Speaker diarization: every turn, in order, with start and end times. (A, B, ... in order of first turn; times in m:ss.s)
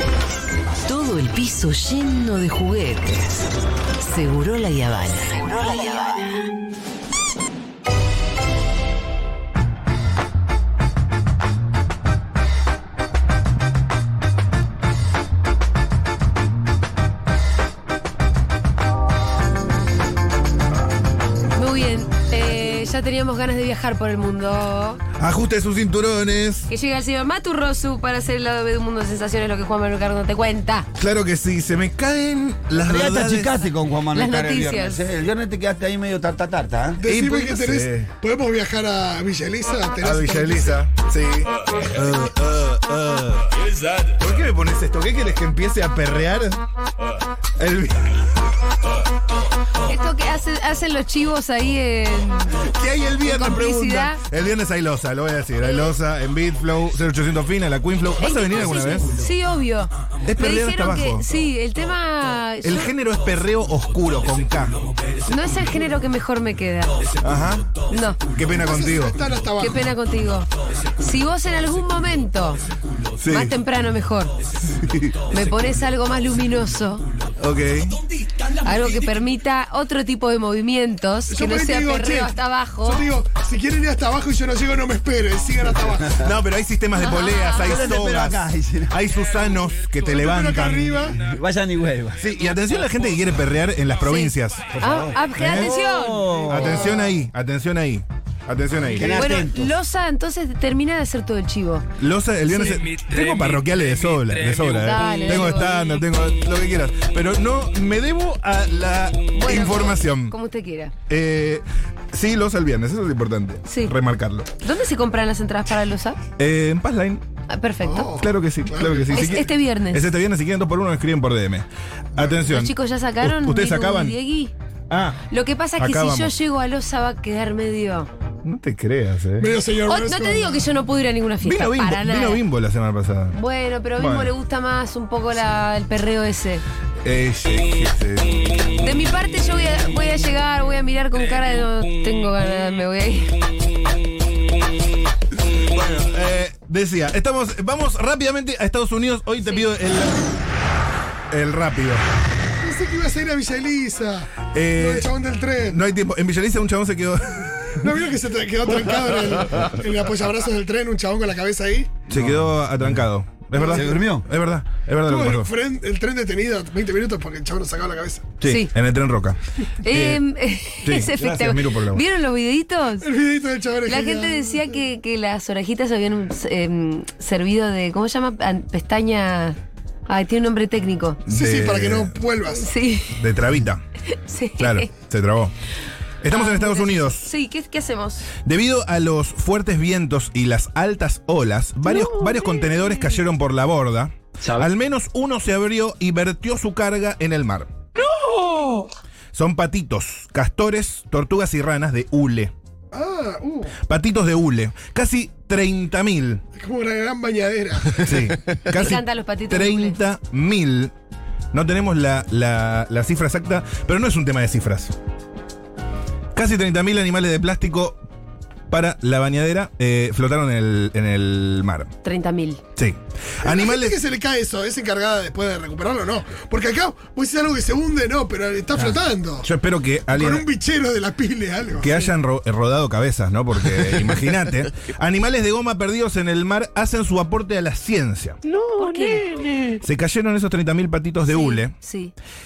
0:00.8-0:03.4 A
0:04.0-0:06.2 A
0:21.5-0:25.0 B
0:25.2-0:26.7 C
0:26.7-0:30.9 B
0:31.0-0:33.5 C
0:32.8-0:37.0 D
0:34.1-0:35.0 B
0:37.0-0:40.8 E
0:37.1-0:38.1 C
0:40.0-0:43.5 C
0:44.1-0:46.6 C
0:47.6-0:48.2 C
0:49.8-0:52.6 B
0:52.5-0:59.2 C
0:53.2-0:54.2 B
0:55.6-0:56.0 B
0:58.2-1:02.9 B
1:00.2-1:01.3 C
1:02.6-1:04.9 C
1:05.2-1:07.2 B
1:07.2-1:09.2 C
1:07.9-1:08.2 B
1:08.6-1:09.9 E
1:09.6-1:12.6 B
1:13.2-1:13.6 C
1:13.2-1:14.3 B
1:14.6-1:15.2 C
1:15.3-1:17.0 B
1:17.4-1:18.0 C
1:18.5-1:23.0 B
1:21.3-1:26.2 E
1:26.1-1:31.1 C
1:27.0-1:27.8 B
1:27.6-1:28.9 D
1:30.1-1:31.2 E
1:31.2-1:32.2 D
1:32.2-1:34.7 C
1:34.0-1:36.3 B
1:34.7-1:37.1 D
1:35.3-1:35.8 C
1:36.4-1:39.3 C
1:36.5-1:37.0 E
1:38.9-1:39.7 D
1:39.0-1:41.8 B
1:42.0-1:50.3 C
1:42.5-1:42.9 B
1:44.8-1:45.9 B
1:49.3-1:50.9 B
1:51.1-1:54.5 C
1:53.6-1:53.9 B
1:54.6-1:56.2 B
1:56.4-1:57.2 C
1:57.5-1:58.1 B
1:57.8-1:59.3 E
1:58.1-2:04.2 C
1:59.1-2:00.1 B
2:02.5-2:04.5 B
2:04.9-2:05.2 C
2:05.3-2:08.1 B
2:05.8-2:06.3 C
2:08.4-2:09.5 C
2:09.4-2:10.7 E
2:09.9-2:12.4 B
2:11.4-2:13.4 C
2:13.3-2:16.6 B
2:14.0-2:14.3 C
2:17.0-2:18.5 C
2:18.8-2:23.4 B
2:25.6-2:30.3 C
2:29.4-2:29.7 B
2:31.3-2:32.0 C
2:32.6-2:35.8 E
2:34.5-2:37.9 C
2:37.8-2:42.0 E
2:42.1-2:42.9 D
2:42.1-2:45.5 C
2:43.5-2:43.9 E
2:43.7-2:44.3 D
2:45.1-2:48.2 E
2:48.4-2:50.2 C
2:48.4-2:48.7 B
2:49.8-2:53.1 B
2:50.8-2:52.0 C
2:53.0-2:54.6 E
2:53.8-3:01.2 B
3:01.2-3:02.2 C
3:01.3-3:02.7 E
3:02.5-3:03.2 B
3:03.1-3:03.8 C
3:04.1-3:04.9 B
3:04.6-3:05.5 C
3:06.2-3:07.3 C
3:06.3-3:08.3 B
3:08.4-3:17.7 C
3:19.3-3:22.5 C
3:22.9-3:23.8 E
3:23.8-3:26.4 C
3:26.6-3:28.0 E
3:28.0-3:30.9 C
3:28.7-3:30.0 B
3:31.5-3:34.9 C
3:36.3-3:38.0 C
3:38.7-3:41.9 C
3:42.0-3:42.6 B
3:42.8-3:44.0 C
3:43.4-3:49.5 E
3:49.4-3:50.4 C
3:50.1-3:52.0 E
3:51.8-3:58.4 C
3:58.6-3:59.4 B
3:59.8-4:01.7 C
4:01.3-4:02.1 B